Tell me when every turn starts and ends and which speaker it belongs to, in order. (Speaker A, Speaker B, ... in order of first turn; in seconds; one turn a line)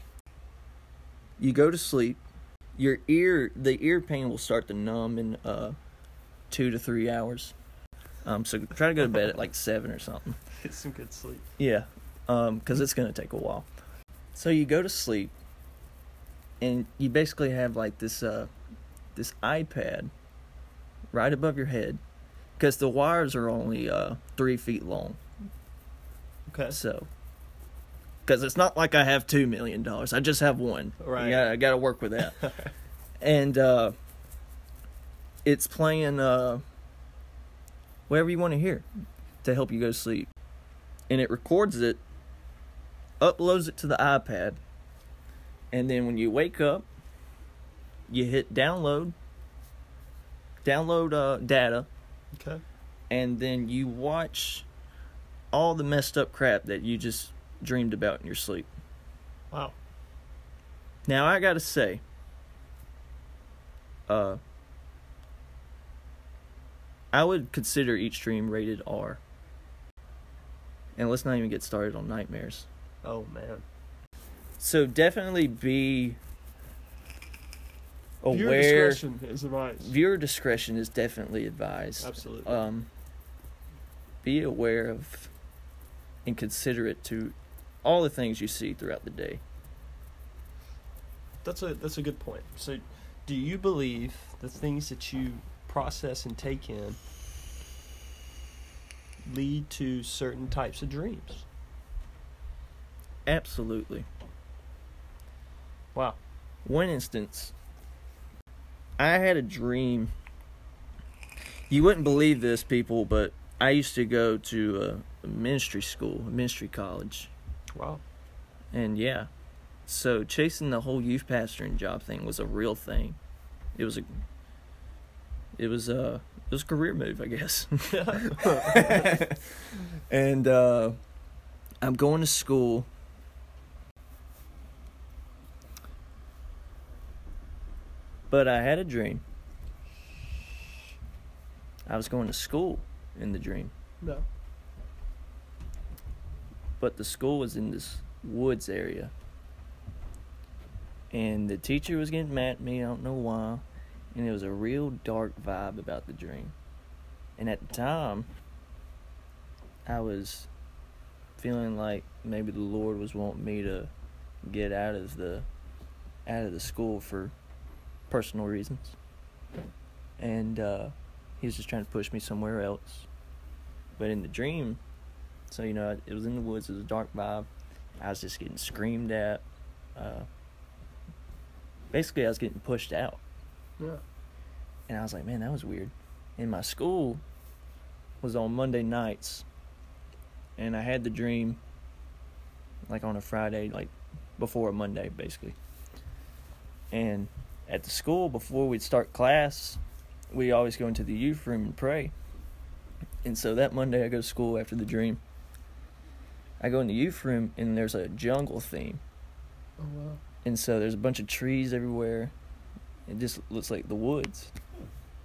Speaker A: 1.4-2.2
Speaker A: 2.8-5.8
Speaker A: 6.5-7.5
Speaker A: 8.2-10.4
Speaker B: 10.6-11.5
Speaker A: 11.6-13.7
Speaker A: 14.3-15.3
Speaker A: 16.6-18.5
Speaker A: 19.1-20.1
Speaker A: 21.1-22.0
Speaker A: 22.6-25.2
Speaker B: 26.5-26.8
Speaker A: 26.7-27.1
Speaker A: 28.2-32.4
Speaker B: 31.0-31.5
Speaker B: 32.3-32.7
Speaker A: 33.2-33.9
Speaker A: 35.4-36.6
Speaker A: 38.1-38.9
Speaker A: 39.4-40.3
Speaker A: 41.1-42.0
Speaker A: 43.2-44.6
Speaker A: 45.7-46.9
Speaker A: 48.1-49.1
Speaker A: 50.6-51.9
Speaker B: 52.3-52.6
Speaker A: 53.1-54.7
Speaker A: 55.5-58.7
Speaker A: 61.0-62.0
Speaker A: 64.1-64.4
Speaker A: 67.1-69.2
Speaker A: 71.0-72.7
Speaker B: 73.0-73.6
Speaker A: 74.6-76.2
Speaker A: 78.2-79.0
Speaker B: 78.3-79.9
Speaker A: 79.8-82.9
Speaker B: 82.0-82.6
Speaker A: 84.2-85.3
Speaker A: 86.2-89.4
Speaker B: 91.4-97.0
Speaker B: 99.2-101.4
Speaker A: 103.2-104.1
Speaker A: 106.6-107.5
Speaker A: 109.0-110.1
Speaker A: 111.7-117.3
Speaker B: 117.7-118.0
Speaker A: 118.7-119.3
Speaker A: 119.8-123.2
Speaker A: 123.7-124.0
Speaker A: 125.5-131.0
Speaker B: 127.9-129.1
Speaker A: 131.8-132.9
Speaker A: 138.3-139.2
Speaker A: 141.9-143.7
Speaker A: 146.8-149.1
Speaker A: 151.1-156.5
Speaker A: 157.4-158.3
Speaker A: 159.8-160.5
Speaker A: 161.4-163.9
Speaker A: 164.4-165.5
Speaker A: 166.2-167.3
Speaker A: 168.1-168.9
Speaker A: 170.2-173.1
Speaker A: 174.0-174.8
Speaker A: 175.5-177.5
Speaker A: 178.0-179.4
Speaker A: 179.9-180.3
Speaker A: 181.9-183.2
Speaker A: 184.9-187.2
Speaker A: 188.2-189.4
Speaker A: 190.6-191.6
Speaker A: 192.9-195.6
Speaker A: 196.9-199.8
Speaker A: 200.3-202.1
Speaker A: 203.2-205.2
Speaker A: 206.6-209.0
Speaker B: 209.8-210.2
Speaker A: 210.4-212.3
Speaker A: 213.1-214.5